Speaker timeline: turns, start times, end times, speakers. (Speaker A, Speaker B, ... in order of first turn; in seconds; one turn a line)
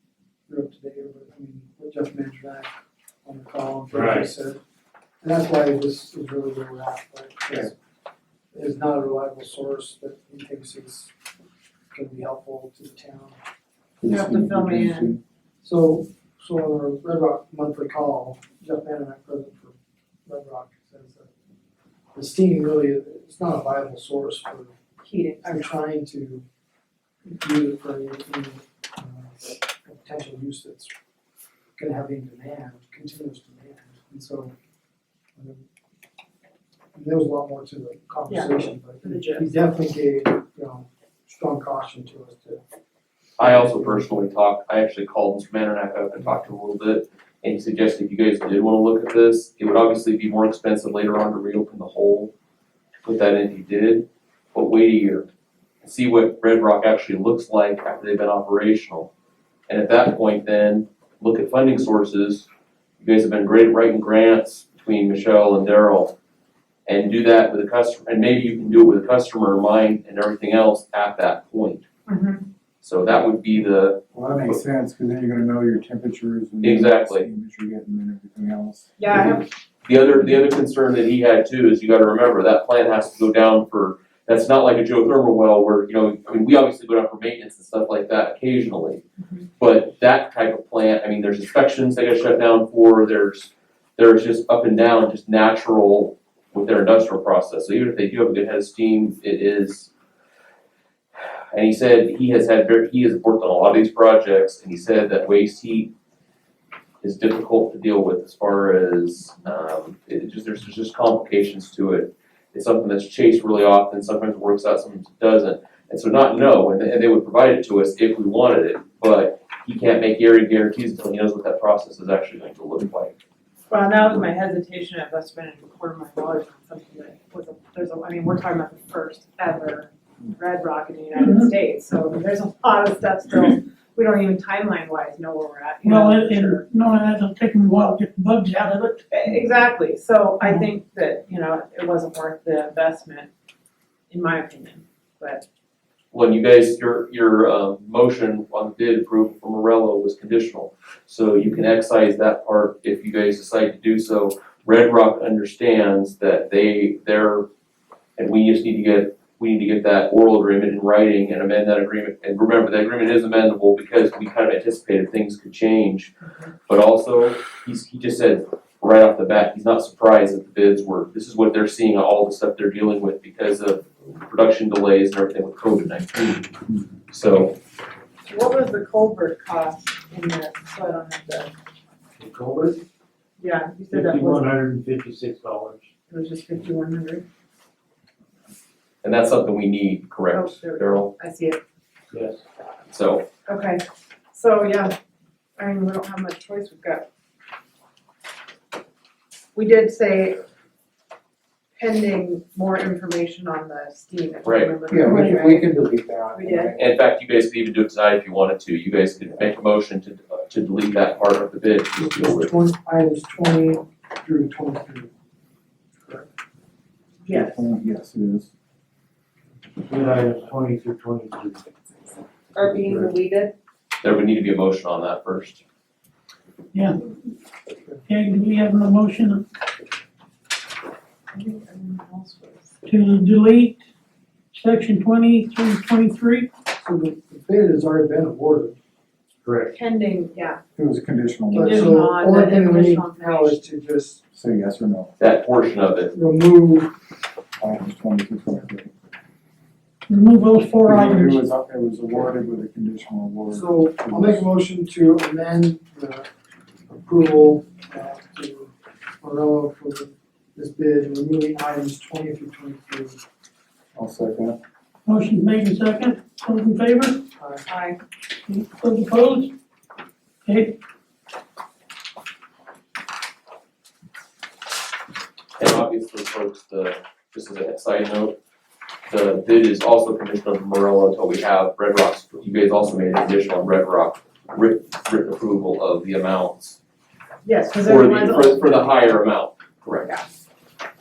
Speaker A: 0.5-2.7
Speaker A: 3.2-4.6
Speaker B: 3.9-4.3
Speaker A: 5.2-7.7
Speaker A: 8.5-11.1
Speaker A: 11.9-13.4
Speaker C: 14.0-15.2
Speaker D: 14.1-15.2
Speaker A: 15.6-21.3
Speaker A: 22.1-24.7
Speaker D: 25.0-25.8
Speaker A: 25.4-26.4
Speaker A: 27.3-30.9
Speaker A: 31.8-34.5
Speaker A: 35.4-35.6
Speaker A: 37.0-42.6
Speaker D: 38.3-39.6
Speaker E: 43.4-52.3
Speaker A: 43.4-44.2
Speaker E: 53.0-55.3
Speaker E: 55.8-59.1
Speaker E: 59.7-62.5
Speaker E: 63.0-66.1
Speaker E: 66.9-71.8
Speaker D: 72.1-72.5
Speaker E: 72.8-74.6
Speaker C: 74.1-79.4
Speaker E: 76.6-77.3
Speaker D: 79.0-79.5
Speaker E: 79.8-89.0
Speaker D: 89.2-89.5
Speaker E: 89.6-99.9
Speaker E: 101.5-105.9
Speaker E: 107.0-123.2
Speaker D: 123.7-136.6
Speaker F: 131.2-131.5
Speaker F: 135.8-139.1
Speaker D: 139.1-143.3
Speaker D: 144.1-145.4
Speaker E: 146.1-157.5
Speaker E: 158.2-166.1
Speaker E: 166.7-176.5
Speaker E: 177.1-177.6
Speaker D: 178.2-181.5
Speaker B: 182.2-182.8
Speaker D: 183.4-184.6
Speaker B: 183.9-185.9
Speaker D: 186.1-187.2
Speaker E: 189.0-191.1
Speaker D: 190.3-191.6
Speaker B: 192.1-192.4
Speaker E: 192.9-193.3
Speaker D: 193.5-195.0
Speaker D: 195.6-197.1
Speaker D: 199.6-200.4
Speaker D: 201.8-205.8
Speaker E: 204.4-204.7
Speaker C: 204.9-206.8
Speaker D: 206.3-206.8
Speaker E: 206.8-212.5
Speaker A: 212.0-215.1
Speaker D: 217.2-217.7
Speaker C: 217.3-218.5
Speaker B: 219.8-221.7
Speaker D: 222.6-223.5
Speaker B: 222.7-223.1
Speaker E: 224.0-225.6
Speaker F: 226.7-227.1
Speaker F: 228.1-229.4
Speaker D: 231.3-232.7
Speaker F: 232.9-233.8
Speaker F: 234.5-236.5
Speaker A: 236.8-238.8
Speaker B: 239.4-239.7
Speaker D: 239.7-240.6
Speaker C: 240.8-242.0
Speaker A: 241.5-244.2
Speaker D: 241.5-243.6
Speaker C: 244.3-245.1
Speaker E: 245.2-246.1
Speaker A: 246.1-246.9
Speaker C: 247.6-248.9
Speaker F: 250.1-251.4
Speaker C: 250.8-254.4
Speaker A: 253.5-256.3
Speaker A: 256.9-263.2
Speaker C: 263.9-264.6
Speaker F: 265.1-267.2
Speaker A: 267.4-267.6
Speaker D: 267.7-268.0
Speaker F: 268.5-269.5
Speaker F: 270.5-270.8
Speaker E: 275.6-278.4
Speaker E: 279.1-286.8
Speaker D: 287.4-289.0
Speaker E: 287.8-290.1